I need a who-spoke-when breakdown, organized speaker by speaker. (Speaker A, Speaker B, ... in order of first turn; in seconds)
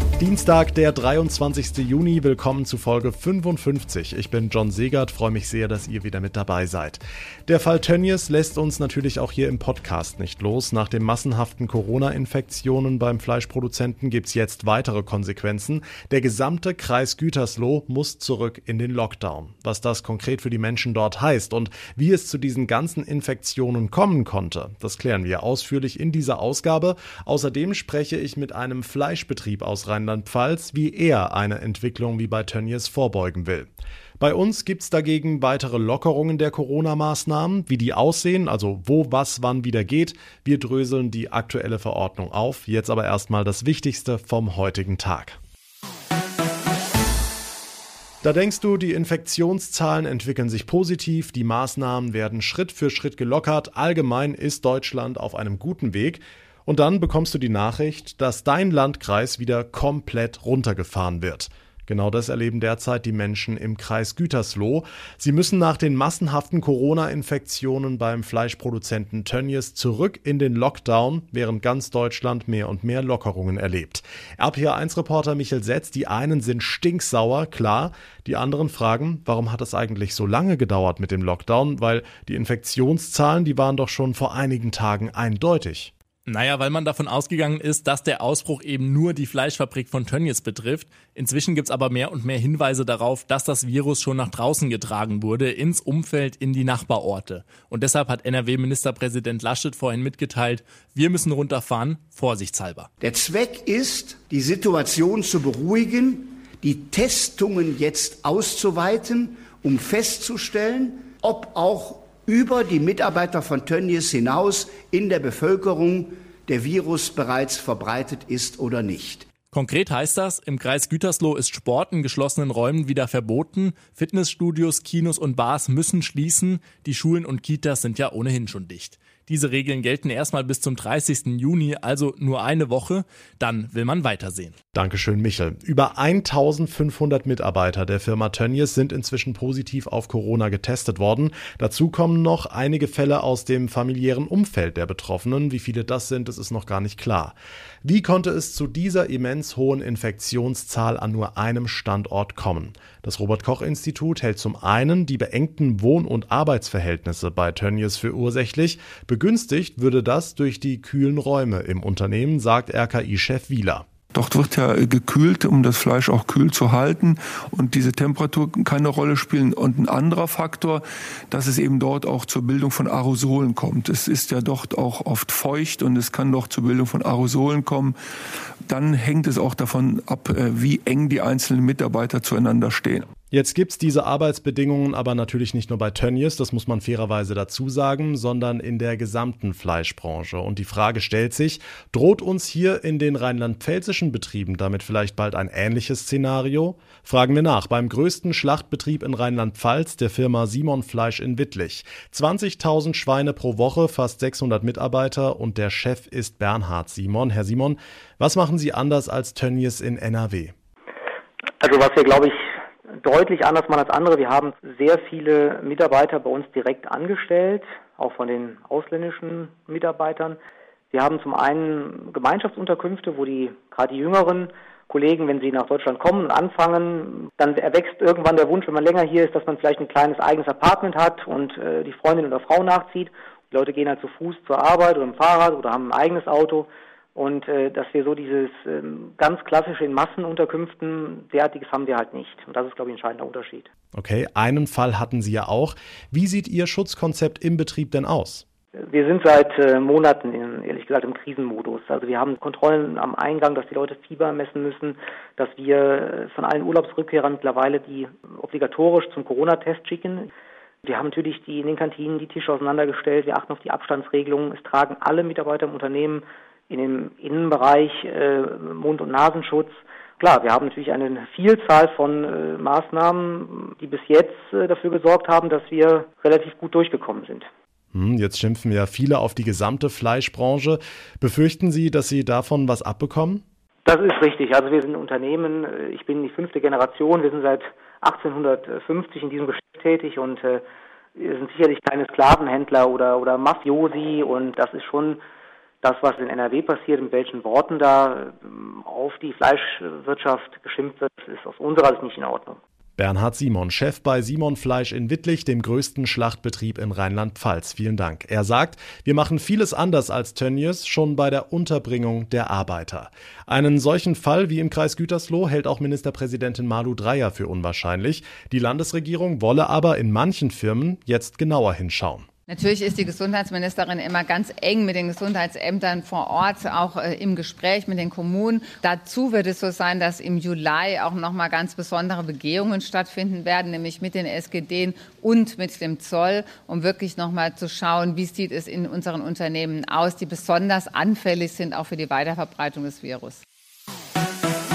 Speaker A: 0.2-45.4, 48.2-85.9, 134.7-163.8, 183.3-210.5, 243.9-248.4, 277.9-283.4, 303.0-322.2
Speaker B: 86.3-102.9, 119.5-134.5
Speaker C: 103.0-119.3
Speaker D: 164.3-170.8, 171.3-177.9, 178.7-182.9
Speaker E: 211.6-212.4, 213.0-220.4, 220.9-243.7, 248.8-260.3, 260.8-277.5, 283.8-290.6, 291.1-295.2, 295.8-302.6
Speaker F: 322.5-343.4